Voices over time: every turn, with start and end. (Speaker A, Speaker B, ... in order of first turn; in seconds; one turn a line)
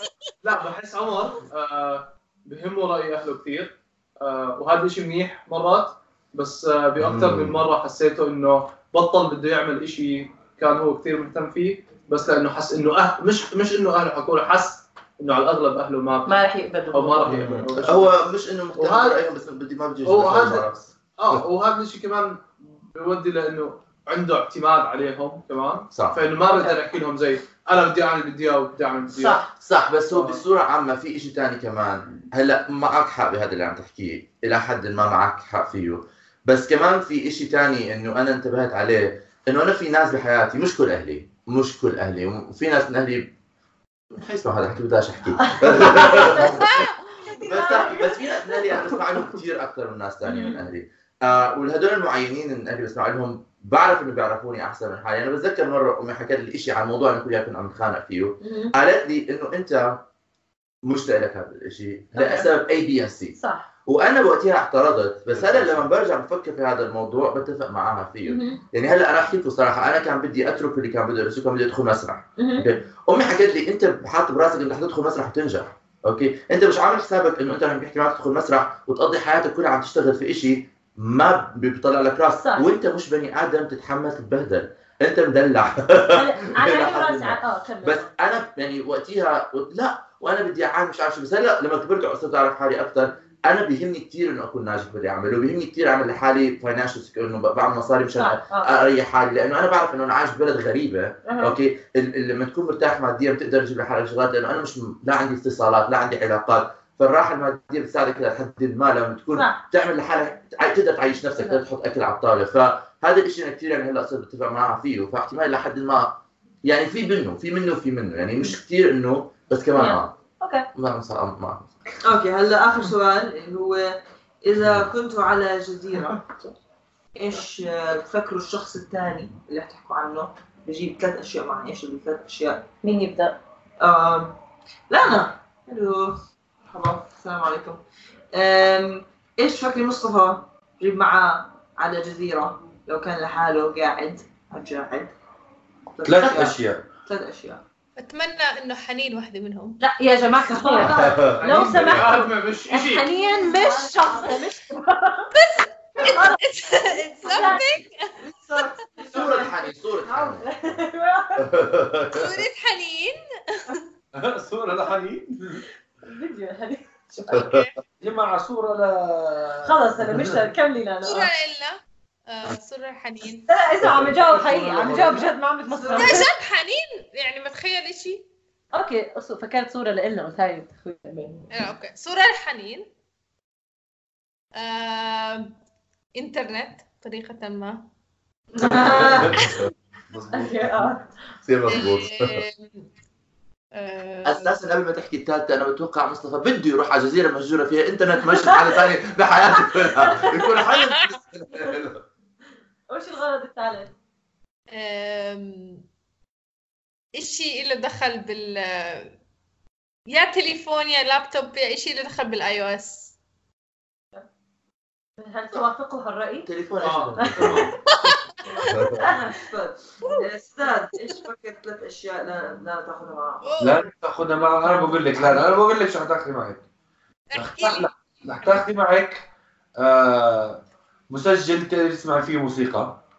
Speaker A: 0.4-16.4
Speaker B: 7.0-7.6
Speaker C: 16.2-17.3
Speaker A: 16.9-18.1
Speaker B: 17.2-21.4
Speaker A: 18.8-19.2
Speaker A: 20.0-29.5
Speaker B: 25.9-26.2
Speaker C: 29.1-29.4
Speaker B: 29.6-43.3
Speaker A: 30.1-30.4
Speaker B: 44.1-60.0
Speaker C: 45.4-46.7
Speaker D: 46.6-46.9
Speaker C: 47.2-48.6
Speaker C: 50.2-50.6
Speaker C: 58.4-58.7
Speaker B: 60.8-120.1
Speaker C: 62.1-62.5
Speaker C: 63.4-63.7
Speaker E: 65.3-65.8
Speaker C: 68.2-68.6
Speaker C: 72.4-72.7
Speaker C: 82.4-82.7
Speaker C: 86.1-88.1
Speaker C: 98.2-98.7
Speaker C: 101.2-101.5
Speaker C: 109.3-109.6
Speaker C: 119.7-120.7
Speaker B: 120.7-121.7
Speaker F: 122.0-126.5
Speaker F: 127.2-132.6
Speaker C: 132.8-133.4
Speaker F: 133.8-134.4
Speaker F: 134.9-137.8
Speaker F: 138.3-145.1
Speaker F: 145.9-147.6
Speaker E: 146.0-146.8
Speaker D: 148.0-149.8
Speaker C: 149.8-155.3
Speaker F: 150.5-151.3
Speaker A: 150.7-153.1
Speaker B: 150.9-151.4
Speaker F: 153.2-154.3
Speaker D: 155.3-158.2
Speaker C: 156.0-157.6
Speaker F: 157.3-157.6
Speaker F: 158.3-159.3
Speaker C: 159.0-161.5
Speaker B: 159.1-160.8
Speaker B: 161.4-162.4
Speaker D: 162.1-163.8
Speaker E: 164.1-165.6
Speaker C: 166.0-167.5
Speaker D: 167.3-167.7
Speaker B: 167.3-167.7
Speaker E: 168.0-170.4
Speaker C: 169.6-171.3
Speaker D: 171.0-173.5
Speaker C: 173.5-176.3
Speaker E: 173.8-175.3
Speaker F: 175.7-176.3
Speaker D: 175.9-178.2
Speaker C: 178.7-181.5
Speaker D: 181.5-182.9
Speaker D: 184.6-185.5
Speaker D: 186.2-187.8
Speaker C: 188.6-189.3
Speaker F: 188.6-189.3
Speaker B: 189.3-189.6
Speaker E: 190.1-190.9
Speaker C: 190.3-191.1
Speaker B: 191.4-192.4
Speaker D: 191.7-192.8
Speaker D: 193.7-194.5
Speaker B: 194.2-202.0
Speaker C: 199.8-200.5
Speaker D: 200.7-201.1
Speaker C: 202.9-203.9
Speaker D: 204.7-205.8
Speaker D: 207.1-209.1
Speaker D: 210.1-213.1
Speaker C: 215.2-216.5
Speaker B: 216.4-217.7
Speaker A: 216.8-217.7
Speaker C: 217.2-217.7
Speaker D: 217.8-218.7
Speaker B: 218.7-219.1
Speaker F: 218.9-223.6
Speaker D: 223.4-223.9
Speaker E: 223.6-226.7
Speaker D: 227.3-228.6
Speaker E: 227.3-229.2
Speaker E: 229.8-233.0